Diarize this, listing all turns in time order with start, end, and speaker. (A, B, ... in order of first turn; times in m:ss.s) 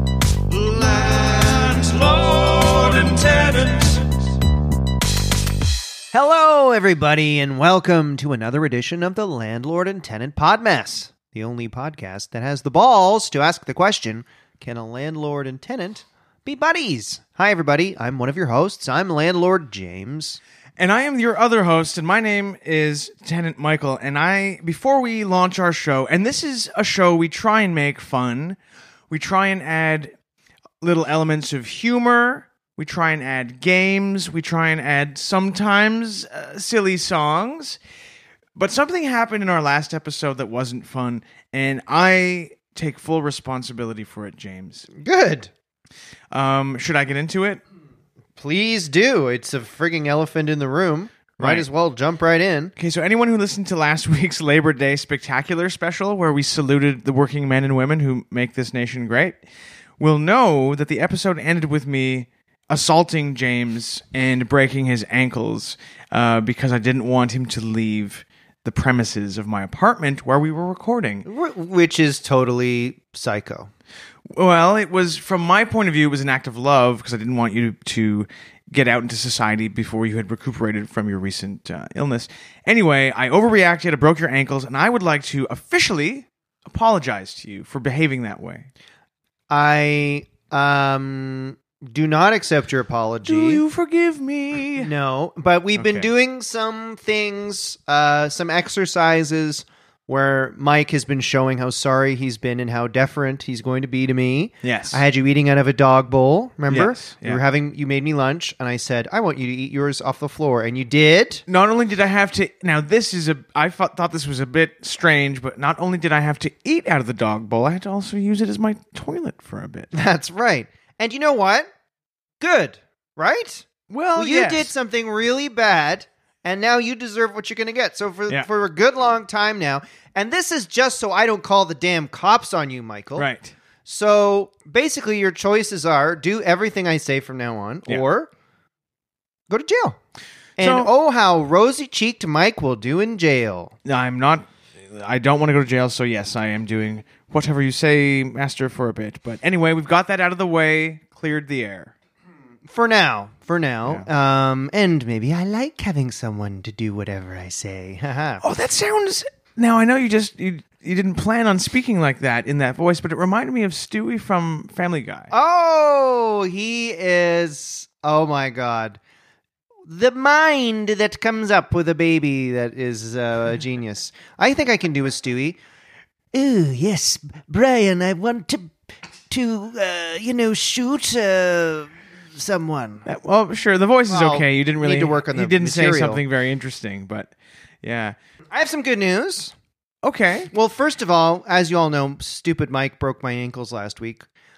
0:00.5-0:04.1 A
0:06.1-0:20.4 B
0:20.8-0:28.6 C
0:29.1-0:30.1 C
0:30.8-0:37.8 C
0:38.6-0:44.9 C
0:44.9-0:45.5 B
0:46.3-0:47.6 C
0:48.4-0:52.7 B
0:51.4-0:51.7 C
0:52.8-0:59.4 C
1:00.0-1:11.2 C
1:11.2-1:13.7 B
1:14.3-1:28.7 C
1:29.5-1:33.6 B
1:33.2-1:34.9 C
1:34.8-1:51.4 B
1:35.8-1:36.1 C
1:44.6-1:45.0 C
1:46.7-1:47.4 C
1:51.5-1:59.9 C
1:59.9-2:01.7 B
2:02.4-2:13.3 B
2:03.9-2:04.7 C
2:13.2-2:13.5 C
2:13.8-2:18.3 B
2:19.5-2:20.0 B
2:20.6-2:23.7 B
2:20.6-2:20.9 C
2:23.8-2:31.9 C
2:32.6-2:38.4 B
2:38.4-2:45.3 C
2:45.3-2:49.0 B
2:49.8-2:55.6 B
2:56.3-2:58.7 B
2:59.3-3:03.0 B
3:03.0-3:07.3 C
3:04.1-3:06.2 B
3:07.8-3:08.2 C
3:08.5-3:09.5 B
3:10.0-3:10.5 C
3:10.5-3:14.2 B